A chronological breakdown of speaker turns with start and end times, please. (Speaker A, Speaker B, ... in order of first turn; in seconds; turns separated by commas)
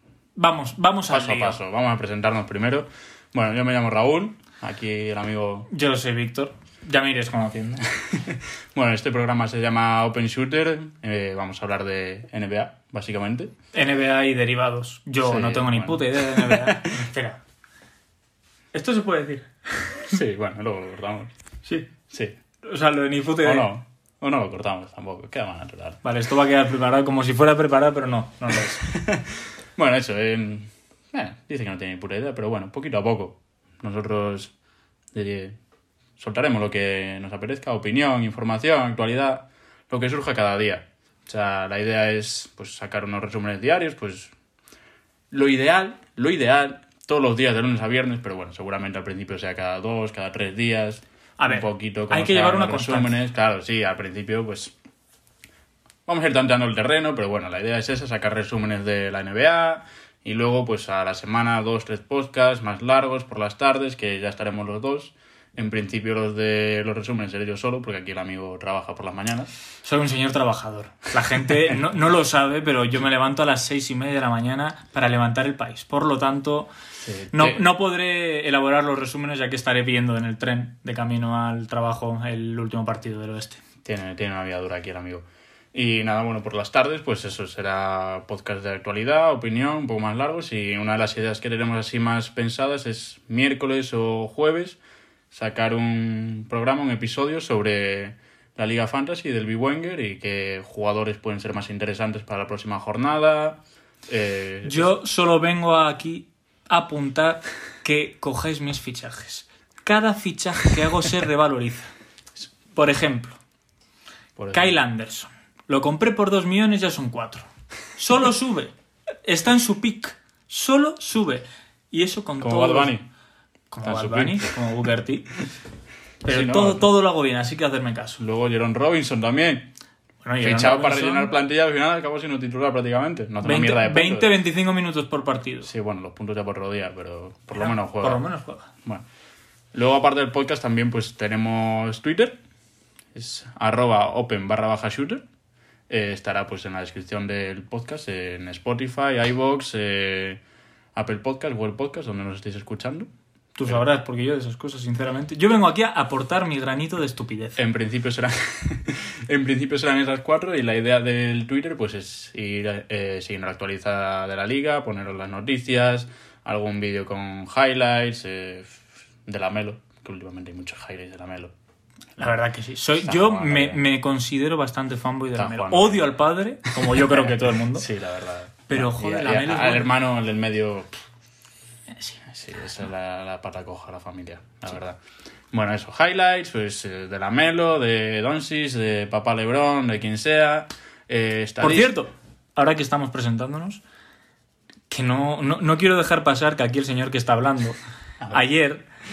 Speaker A: 0.4-1.6, Speaker B: 1.1-5.7, Speaker A: 5.7-7.9, Speaker B: 8.0-13.5, Speaker A: 13.7-17.4, Speaker B: 15.2-17.0, Speaker A: 18.7-20.1, Speaker B: 20.0-21.3, Speaker A: 21.6-21.9, Speaker B: 22.1-22.4, Speaker A: 22.6-23.7, Speaker B: 23.4-26.0, Speaker A: 26.0-28.9, Speaker B: 28.9-34.5, Speaker B: 35.1-35.5, Speaker B: 36.2-44.3, Speaker B: 45.3-54.8, Speaker A: 51.4-53.1, Speaker B: 56.1-69.5, Speaker A: 69.8-76.7, Speaker B: 77.0-77.7, Speaker A: 77.3-83.6, Speaker B: 83.8-94.8, Speaker B: 95.3-104.9, Speaker A: 104.7-111.9, Speaker A: 112.8-113.4, Speaker B: 114.4-114.8, Speaker A: 114.5-118.7, Speaker A: 119.2-123.0, Speaker B: 122.4-123.0, Speaker A: 123.7-125.3, Speaker B: 123.8-124.5, Speaker A: 126.2-128.2, Speaker B: 126.2-126.9, Speaker B: 128.2-129.7, Speaker A: 130.2-131.3, Speaker B: 130.4-134.4, Speaker A: 133.4-135.7, Speaker B: 135.6-138.2, Speaker A: 137.5-138.7, Speaker B: 139.7-142.4, Speaker B: 143.1-145.2, Speaker B: 145.9-150.4, Speaker B: 150.9-153.1, Speaker A: 153.6-157.6, Speaker B: 157.6-171.5, Speaker A: 172.2-177.9, Speaker B: 173.0-173.8, Speaker B: 175.3-176.2, Speaker B: 176.8-180.9, Speaker A: 178.7-179.9, Speaker B: 182.3-185.0, Speaker B: 185.5-191.9, Speaker A: 191.6-193.8, Speaker A: 194.9-197.8, Speaker B: 198.2-198.5, Speaker A: 198.3-198.8